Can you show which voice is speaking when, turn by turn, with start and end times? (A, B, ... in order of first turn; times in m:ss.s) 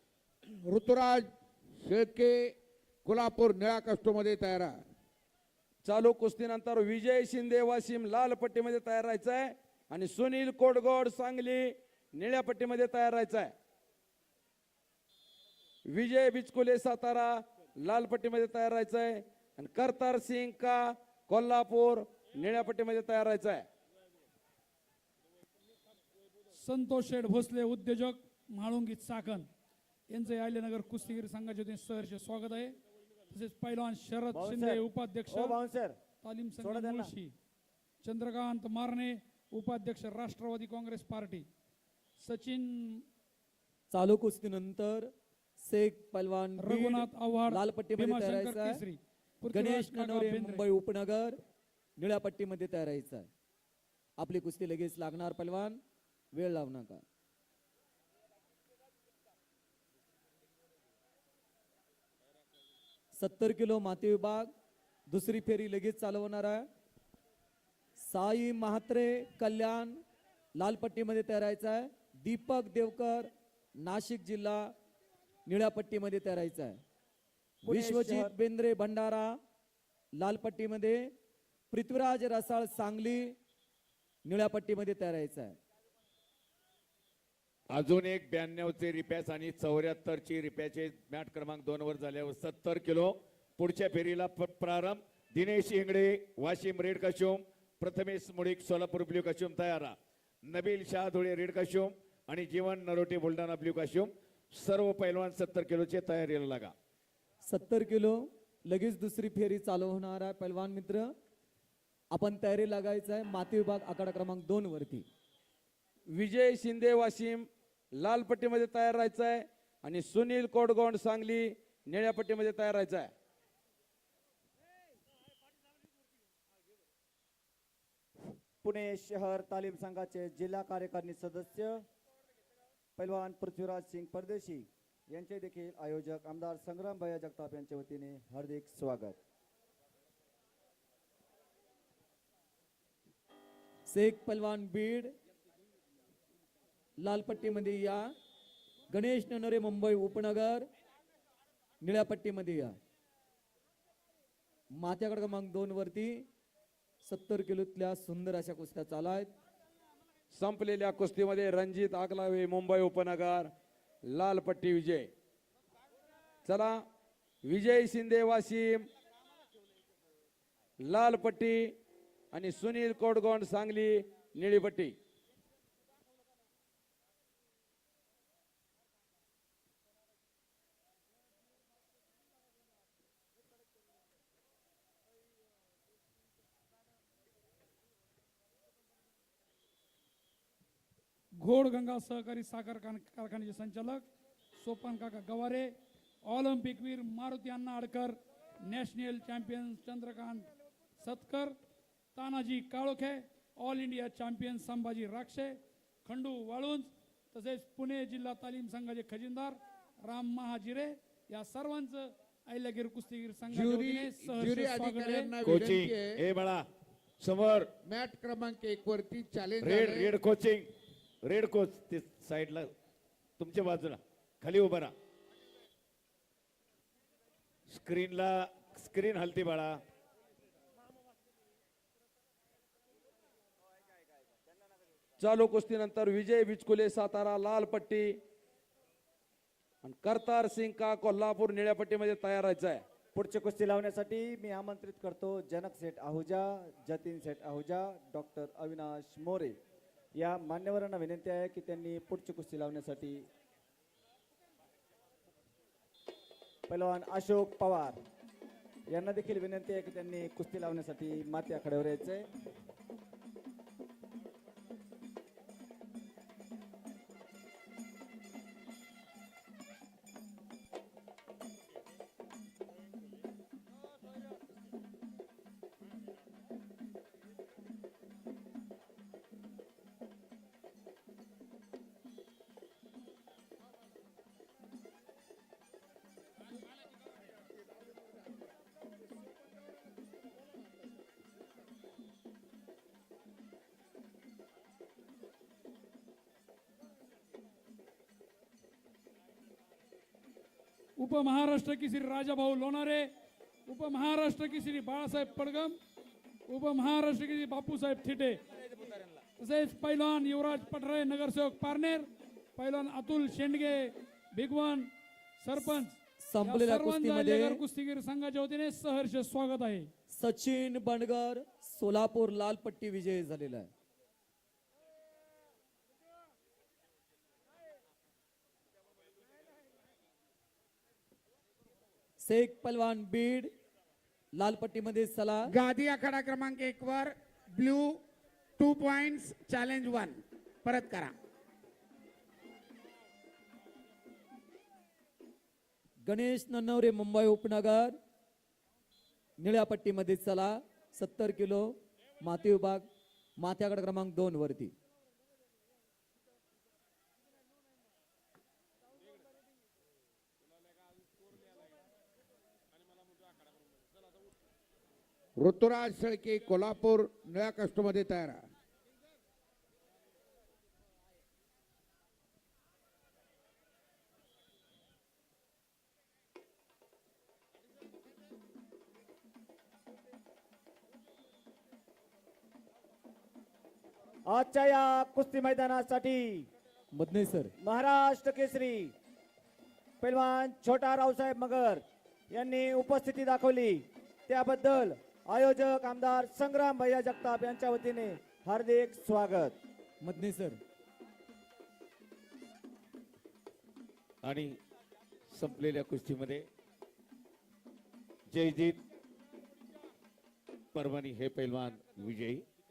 0:00.6-0:01.3 A
0:01.8-0:02.5 A
0:03.0-0:04.8 A
0:05.8-0:13.5 B
0:15.9-0:23.6 B
0:26.6-0:29.5 C
0:30.1-0:32.8 C
0:33.3-0:35.6 C
0:34.3-0:36.0 D
0:36.2-0:37.3 C
0:36.6-0:37.1 D
0:38.0-0:41.5 C
0:42.2-0:43.0 C
0:43.9-0:45.1 E
0:45.6-0:48.8 E
0:46.6-0:50.7 C
0:49.5-0:51.4 E
0:52.0-0:53.3 E
0:54.2-0:55.8 E
0:56.3-0:57.0 E
1:03.1-1:04.5 E
1:05.1-1:06.7 E
1:08.0-1:10.0 E
1:10.6-1:13.3 E
1:13.8-1:14.7 E
1:15.5-1:16.8 E
1:17.7-1:18.3 D
1:17.7-1:19.4 E
1:20.2-1:21.1 E
1:21.7-1:23.4 E
1:24.2-1:25.6 E
1:27.7-1:46.7 F
1:47.4-1:51.1 E
1:52.1-1:55.1 E
1:56.1-2:03.1 B
2:08.6-2:11.8 D
2:13.0-2:19.2 D
2:23.9-2:25.1 E
2:27.0-2:28.1 E
2:28.9-2:30.7 E
2:31.8-2:32.7 E
2:34.8-2:36.2 E
2:37.0-2:39.3 E
2:40.3-2:43.5 B
2:44.1-2:45.1 B
2:46.4-2:46.8 B
2:47.4-2:48.9 B
2:50.8-2:51.8 B
2:52.3-2:55.0 B
3:11.4-3:14.0 C
3:14.6-3:15.7 C
3:16.3-3:20.5 C
3:21.0-3:21.6 C
3:22.2-3:35.4 C
3:33.6-3:36.2 A
3:35.4-3:36.6 F
3:37.2-3:37.7 F
3:37.9-3:40.1 A
3:39.6-3:40.7 F
3:41.2-3:42.7 F
3:43.4-3:44.9 F
3:47.7-3:49.8 F
3:55.2-3:58.2 B
3:59.8-4:02.8 B
4:03.1-4:09.6 D
4:10.2-4:13.2 D
4:16.7-4:18.0 D
4:18.9-4:22.3 D
5:01.0-5:03.1 C
5:03.7-5:05.8 C
5:06.5-5:08.4 C
5:09.4-5:19.9 C
5:16.2-5:17.6 E
5:20.2-5:23.7 E
5:32.2-5:33.5 E
5:34.4-5:35.6 E
5:35.5-5:38.0 G
5:38.6-5:41.1 G
5:46.0-5:48.0 E
5:49.4-5:52.9 E
5:53.4-5:54.7 E
6:05.4-6:08.4 A
6:24.3-6:26.5 D
6:27.0-6:27.5 E
6:27.6-6:28.9 D
6:30.0-6:39.6 D
6:40.0-6:40.6 E
6:44.2-6:44.6 F
6:45.3-6:46.5 F
6:48.3-6:48.8 F
6:50.8-6:52.4 F